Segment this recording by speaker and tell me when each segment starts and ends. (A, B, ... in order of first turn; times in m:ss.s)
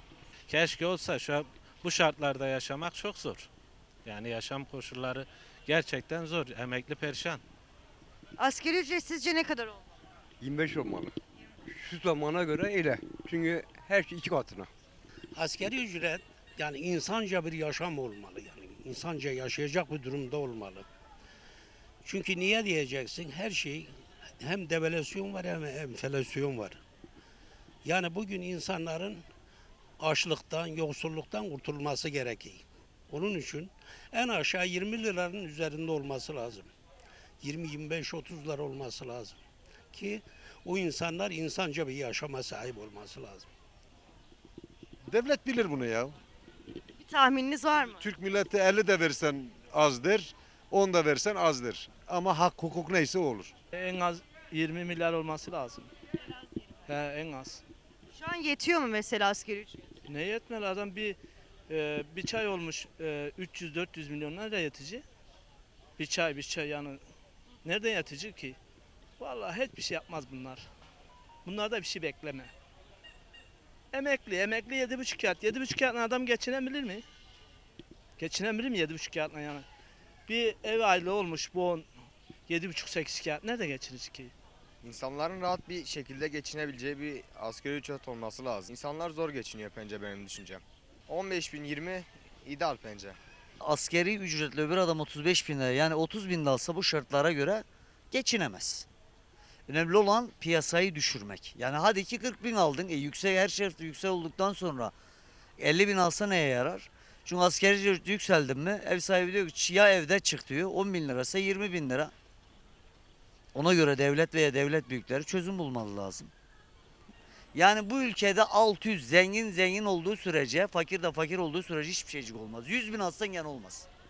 0:00.5-0:03.5 A
0:04.0-0:07.4 A
0:08.4-0:09.8 B
0:10.4-0:11.1 C
0:11.7-0:14.7 C
0:15.4-0:20.8 D
0:22.0-0:23.9 D
0:24.4-0:26.8 D
0:27.8-0:29.2 D
0:30.0-0:36.7 D
0:37.4-0:39.4 D
0:39.9-0:43.5 D
0:47.0-0:48.1 B
0:48.9-0:49.9 E
0:50.7-0:51.3 E
0:52.0-0:53.4 E
0:53.7-0:55.9 F
0:56.8-0:57.6 F
0:58.1-0:59.8 B
1:00.0-1:01.2 F
1:01.7-1:05.0 F
1:06.0-1:07.0 F
1:07.6-1:08.6 F
1:09.2-1:10.6 F
1:11.4-1:12.5 F
1:13.9-1:17.0 F
1:18.2-1:19.6 F
1:20.3-1:21.9 F
1:22.5-1:24.3 F
1:24.8-1:33.2 G
1:33.6-1:38.9 H
1:39.7-1:44.9 H
1:45.6-1:52.1 H
1:53.5-1:56.3 H
1:57.5-2:03.9 H